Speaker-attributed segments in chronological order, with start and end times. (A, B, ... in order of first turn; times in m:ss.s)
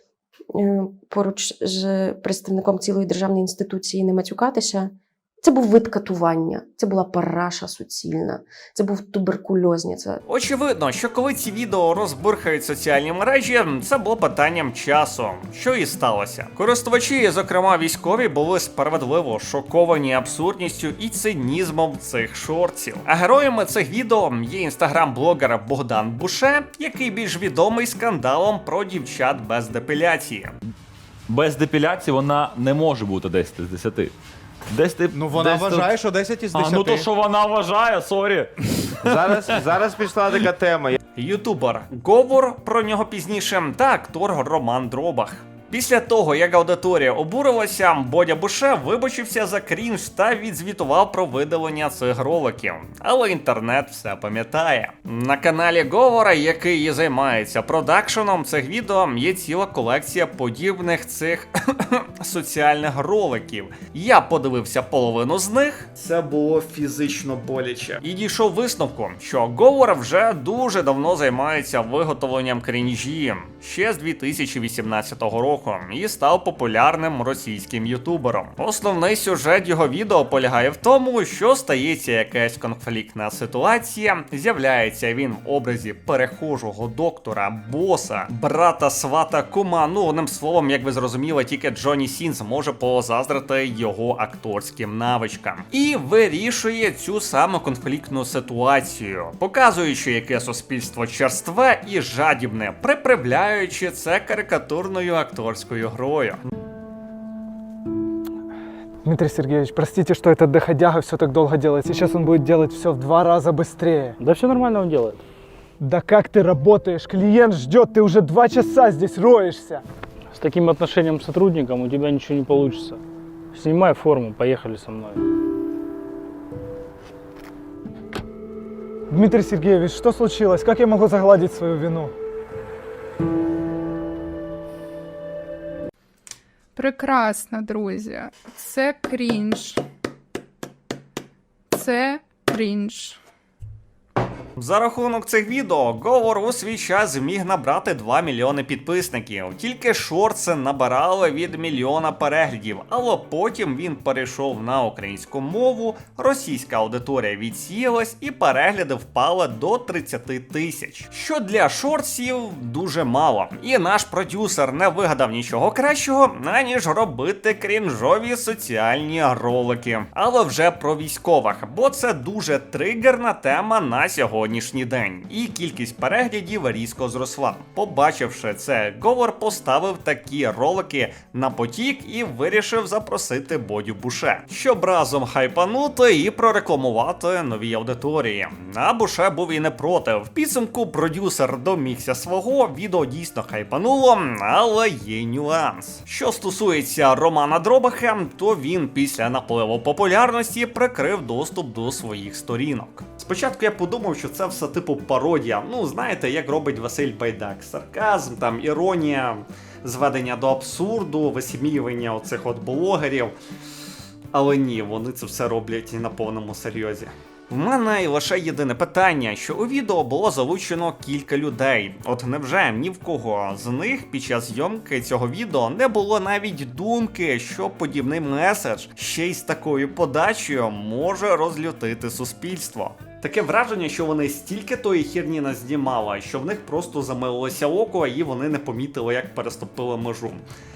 0:00.5-0:10.2 A
0:10.3-0:30.5 B
0:31.3-0:34.1 C
0:34.7-0:35.9 C
0:35.2-0:37.1 D
0:36.5-0:39.6 C
0:39.1-0:41.0 D
0:41.2-1:46.4 B
1:49.0-1:54.2 E
1:54.2-1:55.2 F
1:55.8-1:59.8 E
2:00.3-2:03.0 F
2:03.5-2:05.2 F
2:09.1-2:12.1 E
2:16.8-2:19.8 G
2:21.7-2:23.2 G
2:24.6-3:33.3 B
3:34.3-4:00.4 B